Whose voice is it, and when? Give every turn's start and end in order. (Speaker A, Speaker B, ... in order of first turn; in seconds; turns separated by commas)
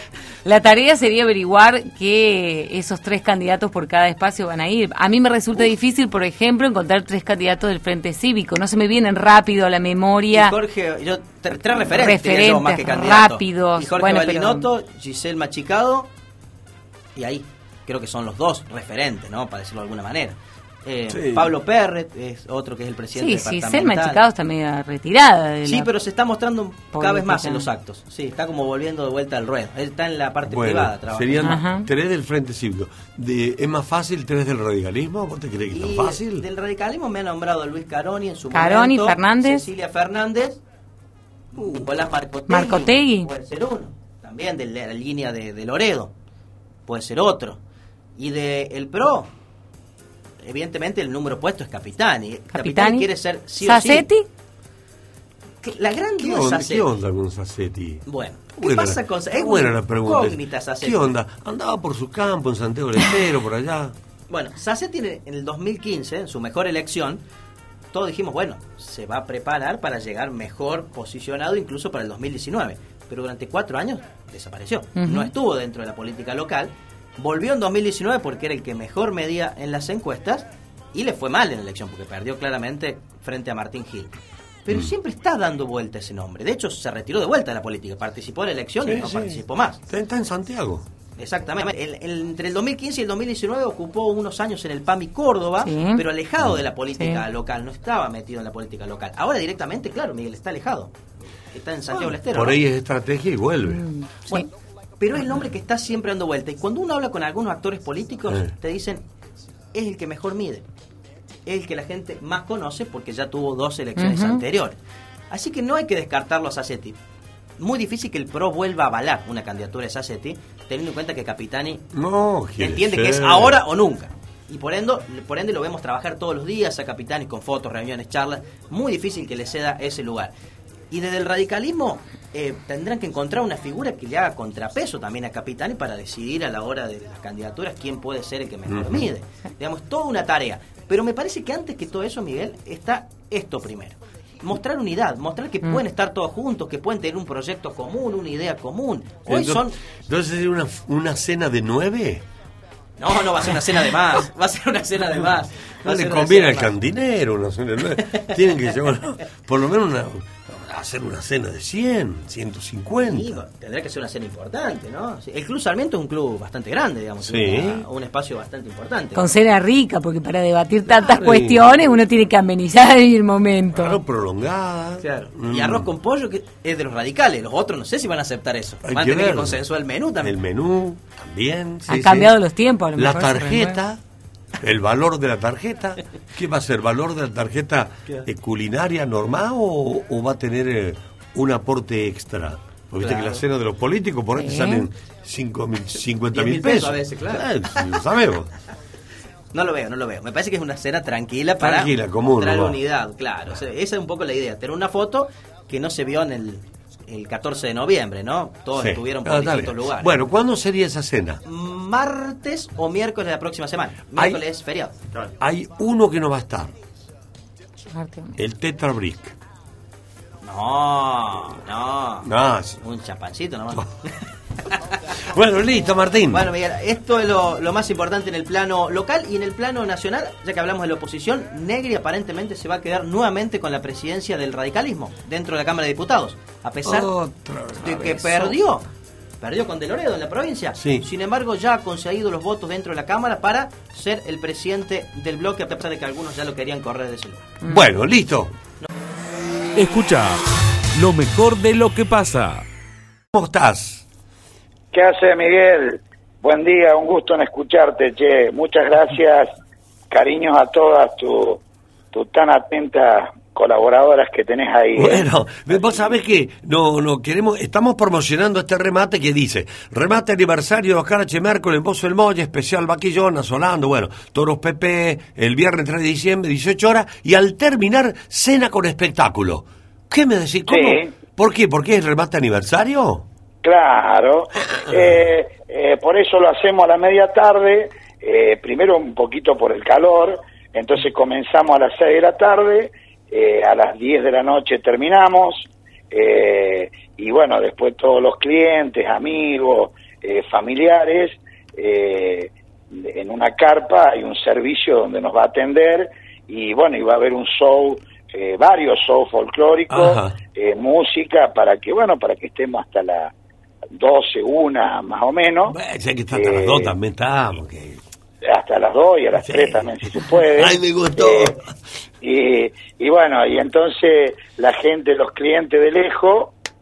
Speaker A: 0.4-10.5, Speaker B: 10.3-16.1, Speaker A: 11.9-14.7, Speaker B: 17.1-24.2, Speaker C: 21.1-21.5, Speaker A: 23.1-25.9, Speaker B: 25.6-31.6, Speaker A: 26.9-27.7, Speaker C: 30.4-36.5, Speaker A: 31.4-31.9, Speaker B: 35.7-40.6, Speaker A: 38.5-39.7, Speaker B: 41.5-46.1, Speaker C: 41.6-41.9, Speaker A: 42.5-43.3, Speaker B: 46.9-47.6, Speaker B: 48.2-49.3, Speaker B: 50.4-54.1, Speaker A: 52.5-54.3, Speaker B: 55.6-56.9, Speaker C: 56.2-63.9, Speaker B: 58.0-61.1, Speaker B: 64.3-67.2, Speaker B: 67.9-89.8, Speaker A: 74.9-75.3, Speaker C: 88.8-90.9, Speaker B: 91.2-100.9, Speaker A: 95.6-96.1, Speaker A: 96.9-97.2, Speaker B: 101.5-102.6, Speaker C: 102.3-103.9, Speaker A: 103.7-104.5, Speaker B: 105.0-109.0, Speaker B: 109.7-110.7, Speaker B: 111.5-114.8, Speaker A: 114.0-114.4, Speaker B: 115.3-117.0, Speaker B: 117.6-121.8, Speaker C: 121.9-123.6, Speaker B: 122.6-130.3, Speaker B: 130.9-149.8, Speaker C: 138.7-139.1, Speaker C: 149.2-152.2, Speaker B: 153.0-156.7, Speaker C: 155.9-163.4, Speaker B: 158.0-158.7, Speaker B: 162.9-169.3, Speaker C: 167.2-167.9, Speaker A: 169.1-174.0, Speaker C: 170.9-171.9, Speaker C: 173.7-175.9, Speaker B: 175.0-180.4, Speaker C: 178.8-179.6, Speaker C: 180.2-182.3, Speaker A: 181.9-183.8, Speaker C: 182.9-184.0, Speaker C: 184.6-198.5, Speaker B: 193.0-193.4, Speaker A: 194.4-194.9, Speaker B: 196.3-197.9, Speaker B: 199.5-210.1, Speaker C: 201.6-202.8, Speaker C: 208.7-211.4, Speaker B: 211.4-214.9, Speaker C: 215.1-216.7, Speaker A: 217.9-218.3, Speaker C: 218.3-219.3, Speaker B: 220.4-222.3, Speaker C: 222.2-222.8, Speaker B: 222.8-224.2, Speaker C: 225.3-226.5, Speaker B: 226.3-237.1, Speaker C: 236.8-238.5, Speaker B: 237.8-238.9, Speaker B: 239.4-247.5, Speaker C: 240.8-241.1, Speaker C: 247.6-248.5, Speaker D: 249.8-250.4, Speaker D: 250.9-252.6, Speaker C: 253.3-254.0, Speaker E: 254.9-259.5, Speaker E: 260.1-266.1, Speaker C: 264.9-283.2, Speaker E: 280.7-281.1, Speaker E: 283.6-313.3, Speaker C: 284.7-285.2, Speaker C: 309.9-310.4, Speaker E: 314.0-315.8, Speaker C: 315.7-318.0, Speaker E: 316.3-316.9, Speaker E: 318.4-321.5, Speaker C: 319.3-321.7, Speaker E: 322.2-326.5